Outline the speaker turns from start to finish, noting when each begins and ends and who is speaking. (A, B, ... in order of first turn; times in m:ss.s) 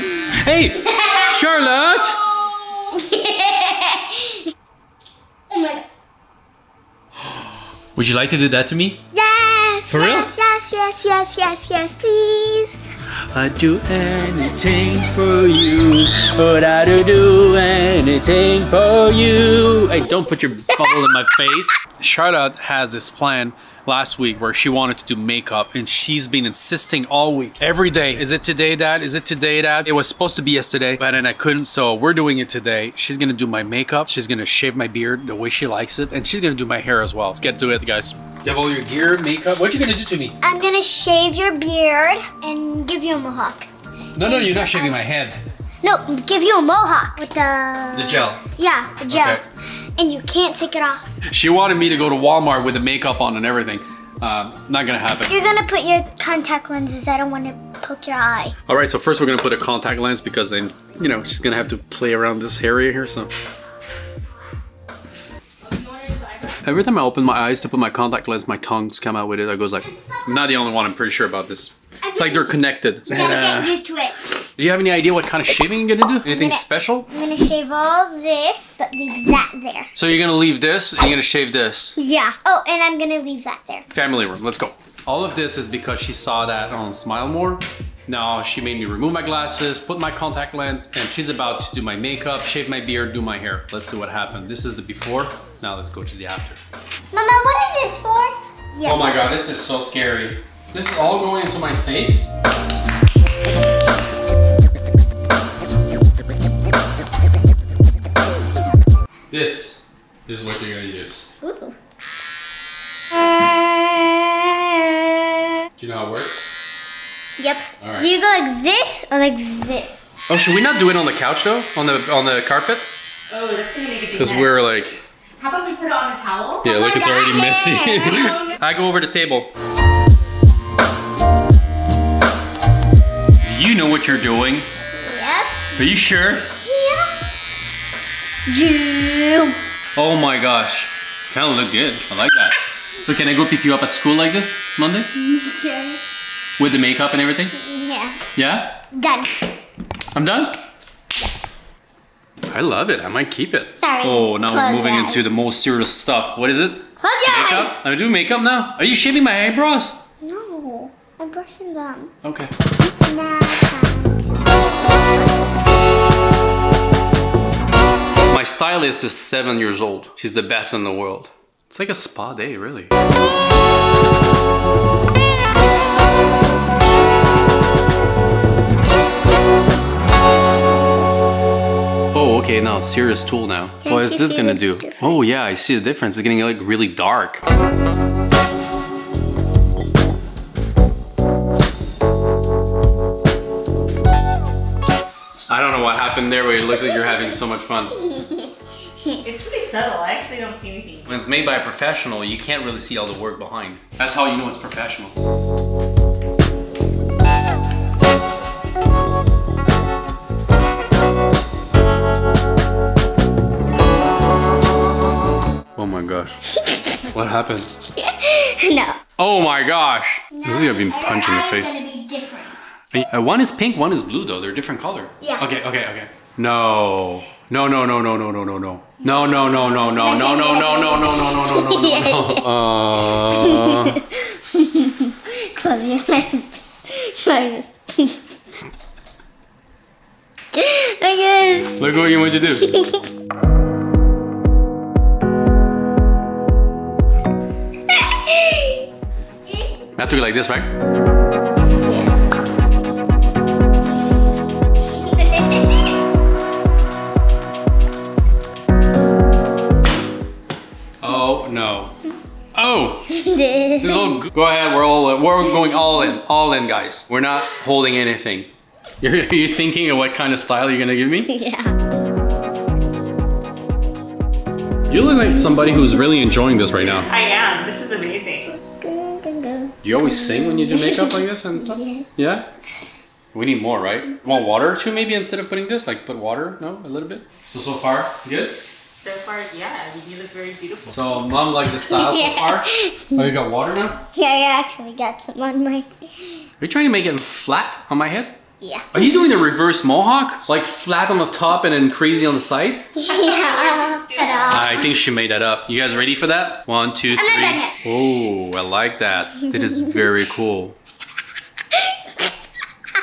0:00.3-0:02.2 A
0:01.0-0:01.2 B
0:02.9-0:04.4 B
0:05.5-0:05.8 B
0:07.9-0:09.0 A
0:09.1-0:12.8 B
0:09.9-0:10.3 A
0:13.3-0:40.3 A
0:40.4-0:43.7 B
0:44.2-0:45.4 A
0:44.2-0:44.9 B
0:45.8-0:49.4 B
0:47.9-0:48.4 A
0:49.0-0:49.4 A
0:50.0-0:51.1 B
0:51.3-0:55.4 A
0:55.3-0:58.5 B
0:58.7-1:03.3 A
1:05.7-1:06.4 C
1:06.6-1:13.7 A
1:12.1-1:12.4 B
1:13.1-1:14.2 B
1:14.4-1:17.1 A
1:16.2-1:19.9 B
1:19.9-1:22.0 A
1:22.0-1:23.9 B
1:23.9-1:36.6 A
1:37.1-1:39.2 B
1:38.8-1:42.3 A
1:49.3-1:51.3 A
1:51.4-1:51.8 B
1:53.1-1:55.5 B
1:55.8-1:56.4 A
1:57.4-2:00.1 B
1:57.8-1:58.1 A
2:00.3-2:02.9 A
2:03.3-2:04.5 C
2:04.1-2:05.0 A
2:05.4-2:06.6 C
2:06.6-2:09.5 A
2:06.6-2:08.5 B
2:13.4-2:14.7 A
2:15.0-2:15.6 B
2:15.8-2:16.5 A
2:16.6-2:17.1 B
2:18.5-2:19.6 B
2:19.9-2:25.1 A
2:25.2-2:26.0 B
2:26.6-2:27.5 A
2:27.6-2:28.2 B
2:28.3-2:28.8 A
2:28.9-2:29.3 B
2:30.1-2:30.6 A
2:32.5-2:39.9 A
2:33.8-2:35.2 B
2:37.0-2:37.8 B
2:40.2-2:42.1 B
2:42.2-2:42.5 A
2:42.8-2:44.5 B
2:48.3-2:52.9 A
2:54.4-2:54.7 A
3:02.1-3:07.4 A
3:03.8-3:05.2 B
3:15.5-3:18.0 A
3:18.0-3:18.5 B
3:19.2-3:21.1 C
3:21.1-3:25.1 A
3:35.8-3:36.4 A
3:37.0-3:37.7 A
3:38.0-3:39.0 B
3:39.2-3:41.8 A
3:40.3-3:42.6 B
3:42.9-3:54.0 A
3:49.0-3:52.5 B
3:53.1-3:58.2 B
4:00.5-4:01.8 B
4:01.8-4:02.7 A
4:02.5-4:03.1 B
4:07.9-4:08.8 B
4:09.4-4:09.8 B
4:10.0-4:10.7 A
4:11.9-4:12.1 B
4:15.0-4:15.9 B
4:21.0-4:21.9 A
4:22.6-4:23.1 A
4:23.1-4:24.2 B
4:23.8-4:28.5 A
4:29.0-4:31.3 A
4:31.3-4:31.8 B
4:34.9-4:37.1 A
4:37.1-4:38.5 C
4:38.5-4:42.0 B
4:39.8-4:42.5 A
4:43.3-4:48.6 A
4:48.9-4:51.2 C
4:50.9-4:54.0 A
4:51.7-4:53.2 B
4:54.1-4:56.4 B
4:56.6-4:58.4 A
4:58.6-4:59.2 B
4:58.9-5:02.9 A
5:02.9-5:04.9 B
5:03.2-5:04.7 C
5:04.5-5:10.8 A
5:07.1-5:07.9 B